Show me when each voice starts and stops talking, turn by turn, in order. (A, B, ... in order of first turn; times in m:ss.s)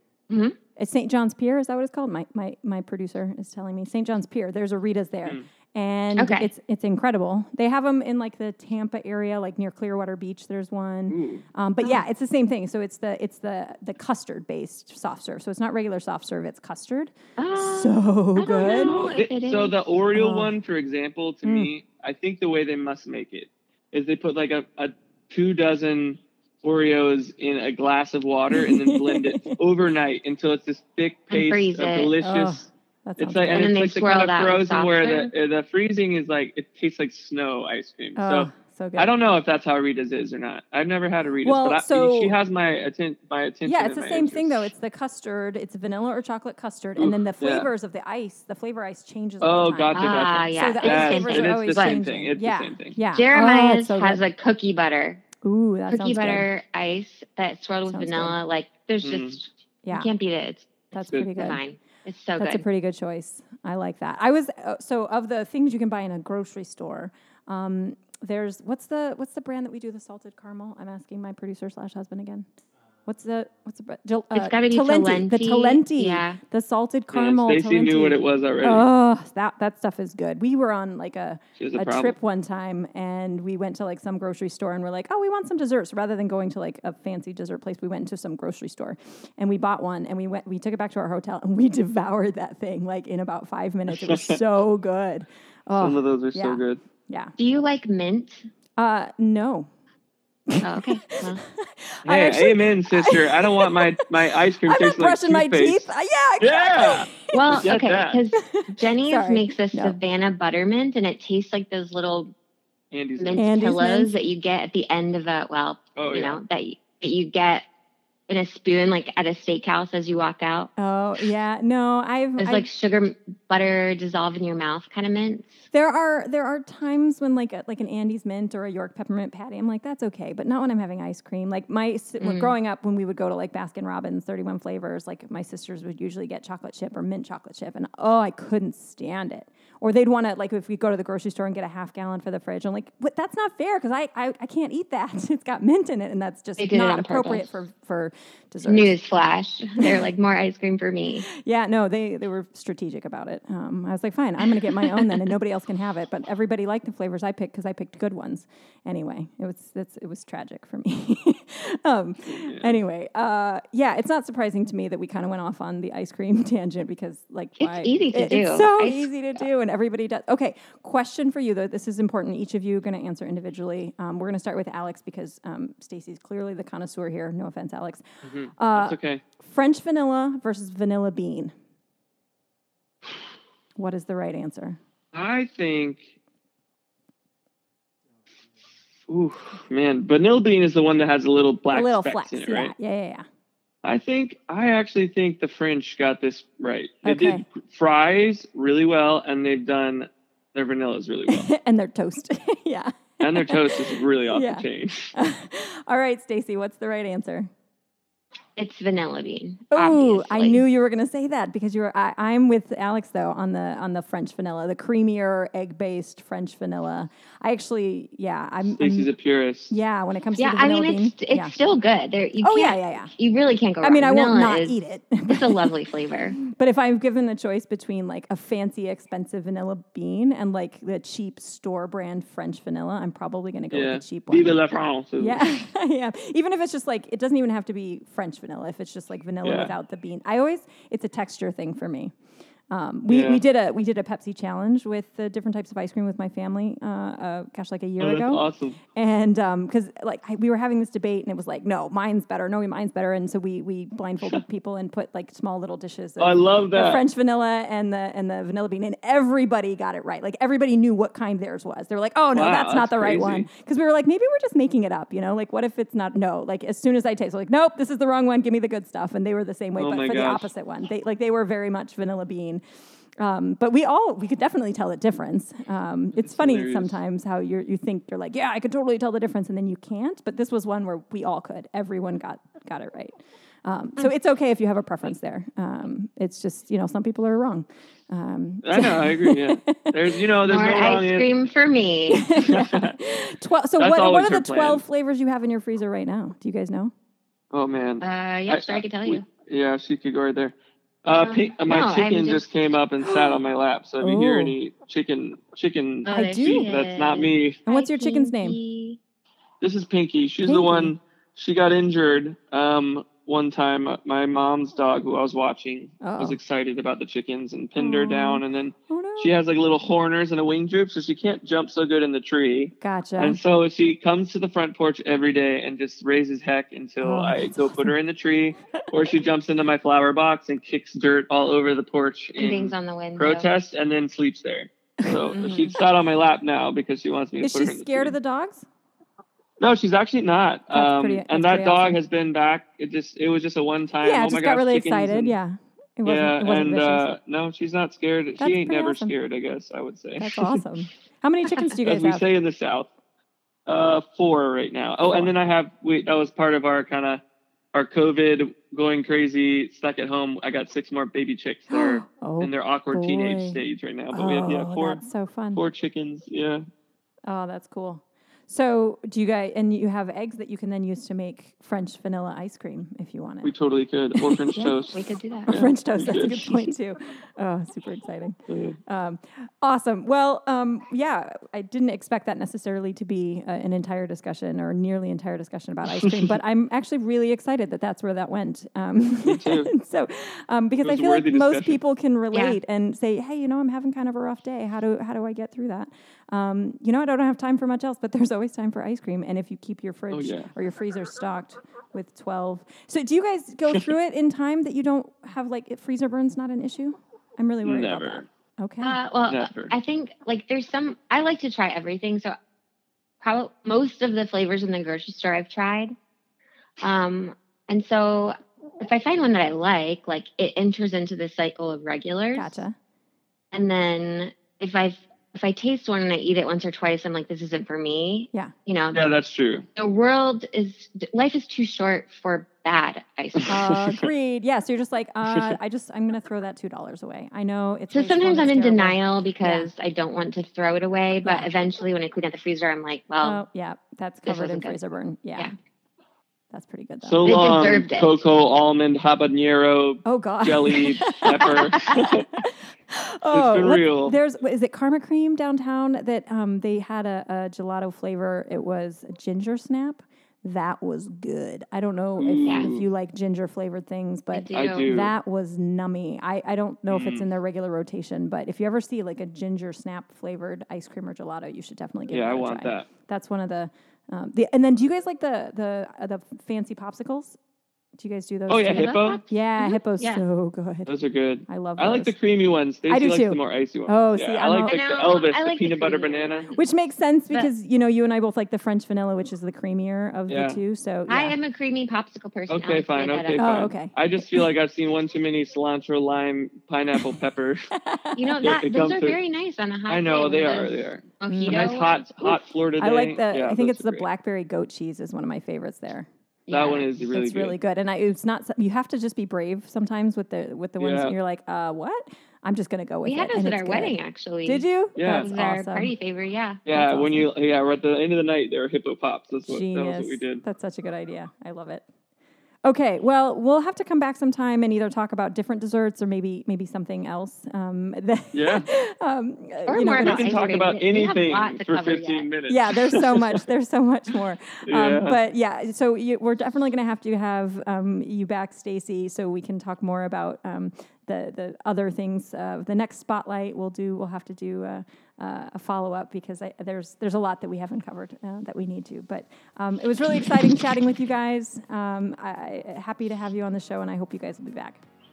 0:00.3-0:00.6 A
0:00.8-0:19.0 B
0:06.2-0:06.5 A
0:11.1-0:11.5 C
0:17.4-0:19.8 A
0:18.8-0:32.7 C
0:20.2-0:20.6 B
0:21.4-0:21.7 B
0:28.5-0:29.6 B
0:31.3-0:32.1 A
0:32.2-0:33.7 B
0:33.2-0:44.7 C
0:33.5-0:35.3 A
0:38.2-0:39.1 B
0:41.4-0:42.4 B
0:43.6-0:54.2 B
0:47.0-0:47.7 C
0:49.4-0:53.0 C
0:50.0-0:52.0 A
0:53.2-0:55.2 A
0:55.4-0:56.5 B
0:55.9-1:02.6 A
0:57.9-0:58.4 B
0:59.0-0:59.4 C
0:59.8-1:00.1 B
1:00.9-1:01.6 B
1:02.4-1:12.5 B
1:13.1-1:37.3 B
1:14.3-1:16.4 A
1:17.1-1:18.9 C
1:21.6-1:22.2 C
1:33.9-1:34.4 C
1:35.8-1:36.8 C
1:37.4-1:38.5 A
1:38.8-1:39.7 B
1:40.5-1:44.0 B
1:40.6-1:41.4 A
1:42.0-1:45.9 C
1:44.6-1:47.6 B
1:46.4-1:48.2 C
1:47.3-1:52.3 A
1:48.5-1:50.0 B
1:52.9-1:53.4 C
1:53.2-1:57.7 A
1:53.4-1:54.1 B
1:56.0-1:56.4 C
1:58.3-2:00.7 A
2:00.8-2:02.7 B
2:02.4-2:05.6 A
2:05.7-2:29.0 B
2:12.2-2:12.6 A
2:26.6-2:27.6 A
2:28.6-2:31.3 A
2:29.8-2:30.0 B
2:31.3-2:58.0 B
2:34.5-2:35.3 A
2:42.3-2:42.8 C
2:47.6-2:49.1 A
2:58.2-2:59.2 C
2:58.6-3:01.5 B
3:03.8-3:04.8 B
3:05.1-3:06.1 C
3:09.1-3:12.8 C
3:11.7-3:13.2 B
3:13.8-3:21.5 C
3:17.0-3:17.4 B
3:21.3-3:27.5 B
3:23.2-3:25.1 C
3:28.6-3:30.6 A
3:29.7-3:39.1 B
3:38.6-3:39.8 C
3:39.7-3:41.5 B
3:40.4-3:46.4 A
3:42.4-3:43.1 B
3:43.8-3:45.7 B
3:46.4-3:54.6 B
3:53.7-3:55.5 C
3:55.2-4:02.1 B
3:59.4-3:59.7 C
4:02.7-4:08.4 B
4:03.1-4:03.4 C
4:08.0-4:08.8 C
4:09.0-4:32.6 B
4:16.2-4:17.0 C
4:22.3-4:23.5 C
4:29.8-4:30.5 C
4:33.2-4:50.3 B
4:36.2-4:37.0 C
4:48.6-4:51.3 C
4:50.4-4:52.3 A
4:52.1-4:56.9 B
4:52.4-4:53.0 C
4:53.8-4:54.8 C
4:57.5-5:07.6 C
4:58.0-4:59.2 A
5:01.2-5:02.5 A
5:03.0-5:03.4 B
5:04.0-5:04.6 B
5:06.0-5:09.0 A
5:06.1-5:06.7 B
5:07.7-5:08.6 B
5:09.6-5:38.2 C
5:10.4-5:10.9 B
5:16.0-5:16.4 B
5:17.8-5:19.3 B
5:22.8-5:23.4 B
5:27.0-5:28.0 B
5:32.4-5:33.5 A
5:35.0-5:35.3 B
5:35.3-5:35.8 A
5:37.4-5:38.7 B
5:39.6-5:45.3 C
5:40.7-5:42.0 B
5:44.0-5:47.1 B
5:46.0-5:50.6 C
5:48.4-5:49.2 B
5:50.2-5:52.3 B
5:51.8-5:52.9 C
5:53.7-5:57.2 C
5:55.0-5:55.3 B
5:57.7-6:05.0 C
6:01.7-6:03.6 B
6:04.1-6:05.6 B
6:05.5-6:06.6 C
6:07.3-6:13.5 B
6:13.4-6:16.8 C
6:14.2-6:14.5 B
6:14.6-6:15.7 A
6:15.5-6:49.0 B
6:18.5-6:18.8 C
6:29.2-6:29.7 C
6:30.8-6:31.8 C
6:32.3-6:32.6 A
6:40.1-6:40.5 C
6:47.6-6:48.3 C
6:48.8-6:52.3 A
6:49.3-6:49.7 C
6:53.2-6:56.0 A
6:56.8-7:02.6 A
7:02.3-7:02.8 B
7:03.5-7:09.0 A
7:08.9-7:09.7 C
7:09.8-7:13.7 A
7:13.4-7:14.1 C
7:13.5-7:19.7 B
7:17.9-7:23.4 A
7:21.2-7:21.5 B
7:23.2-7:25.5 B
7:24.3-7:24.8 A
7:26.5-7:27.4 B
7:27.0-7:32.3 C
7:27.2-7:28.2 A
7:30.0-7:57.4 B
7:31.3-7:31.6 A
7:33.3-7:34.2 C
7:42.2-7:42.9 C
7:42.4-7:42.7 A
7:44.3-7:44.9 A
7:44.5-7:45.1 C
7:46.9-7:47.3 C
7:52.1-7:52.9 C
7:58.0-8:00.9 B
7:58.5-7:59.2 C
7:58.7-8:00.2 A
8:00.9-8:06.5 C
8:01.5-8:02.1 B
8:02.9-8:04.8 B
8:04.6-8:06.6 A
8:06.5-8:11.4 B
8:10.3-8:10.6 C
8:11.1-8:13.6 A
8:12.5-8:17.7 C
8:13.4-8:14.5 B
8:17.8-8:18.3 B
8:18.2-8:22.0 A
8:18.4-8:19.2 C
8:19.9-8:24.1 C
8:21.3-8:26.1 B
8:26.5-8:26.9 A
8:26.5-8:27.6 C
8:27.0-8:35.9 B
8:30.8-8:31.2 C
8:33.0-8:36.6 A
8:35.0-8:35.3 C
8:36.7-8:40.4 C
8:36.7-8:37.3 B
8:39.5-8:41.8 B
8:42.6-8:50.7 B
8:48.3-8:48.7 C
8:49.7-8:52.3 A
8:50.0-8:53.4 C
8:52.5-9:14.8 B
8:54.7-8:55.2 C